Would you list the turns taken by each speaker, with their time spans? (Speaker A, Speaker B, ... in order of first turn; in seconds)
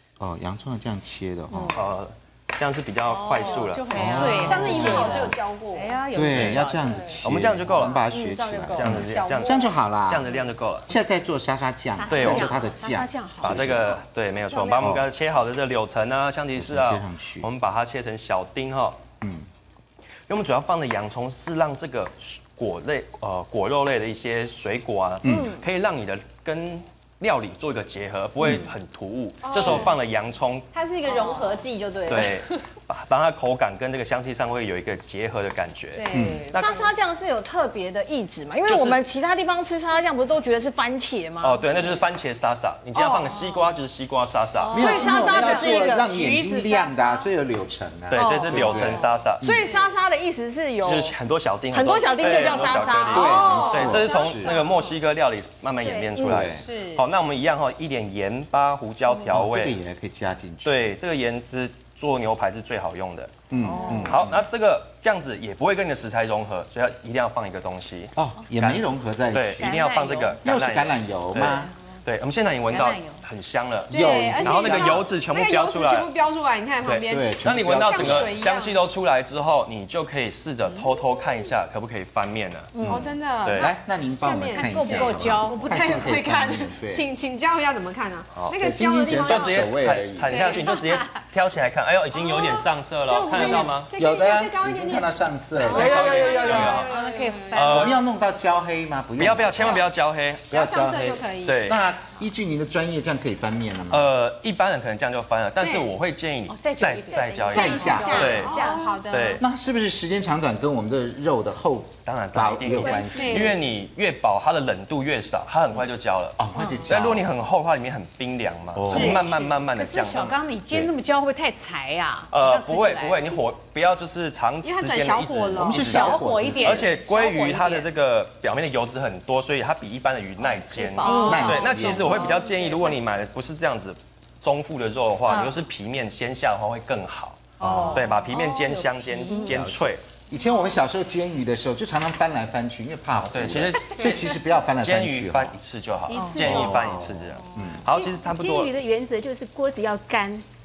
Speaker A: 0.2-1.8, 3.9-5.3, 6.1-10.3, 10.9-14.0, 14.8-15.1, 16.6-17.5, 19.2-19.5, 25.2-25.6, 28.4-28.7, 29.6-29.9, 36.1-36.5, 44.7-49.7, 53.1-54.6, 56.2-56.6, 59.3-60.9, 63.5-64.4, 68.2-69.7, 70.4-71.7, 73.9-75.1, 77.1-78.4, 82.8-87.1, 88.5-90.5, 94.0-96.8, 97.6-99.9, 100.5-104.1, 107.5-108.5, 109.4-113.6, 116.4-117.3, 118.8-119.2, 125.6-126.9, 131.2-132.2, 137.6-138.1, 140.3-145.6, 146.4-147.8
Speaker B: 1.6-4.7, 7.2-8.1, 8.7-10.9, 12.1-12.6, 13.4-19.0, 20.3-30.7, 32.1-36.9, 38.6-39.0, 41.4-45.1, 48.1-49.5, 50.8-59.8, 60.6-63.4, 64.0-76.1, 76.8-82.8, 83.4-83.7, 89.1-93.9, 95.6-96.9, 97.5-98.0, 99.2-100.5, 101.4-101.8, 103.9-109.4, 112.0-120.9, 122.3-140.0, 143.3-144.2, 144.8-148.7
Speaker C: 3.1-6.0, 8.1-9.7, 12.0-12.3, 25.3-25.6, 29.4-30.0, 30.7-32.6, 36.0-41.9, 43.0-43.8, 44.6-46.1, 48.1-51.1, 51.7-55.0, 55.8-57.0, 63.7-64.1, 69.9-70.2, 73.9-78.8, 82.8-91.1, 92.1-97.9, 100.5-101.6, 105.6-105.9, 107.5-109.4, 113.1-113.6, 118.9-119.2, 124.6-126.2, 131.0-132.8, 137.6-139.6, 146.1-146.7
Speaker D: 3.2-7.1, 12.1-14.0, 31.1-31.6, 44.7-47.3, 63.7-64.0, 69.6-70.3, 72.7-73.2, 82.8-83.0, 84.3-86.2, 95.8-97.9, 106.5-109.0, 118.9-123.3, 125.8-127.9, 130.8-132.3, 137.7-137.9
Speaker E: 108.3-108.7, 112.8-113.5, 146.1-147.0, 147.8-150.4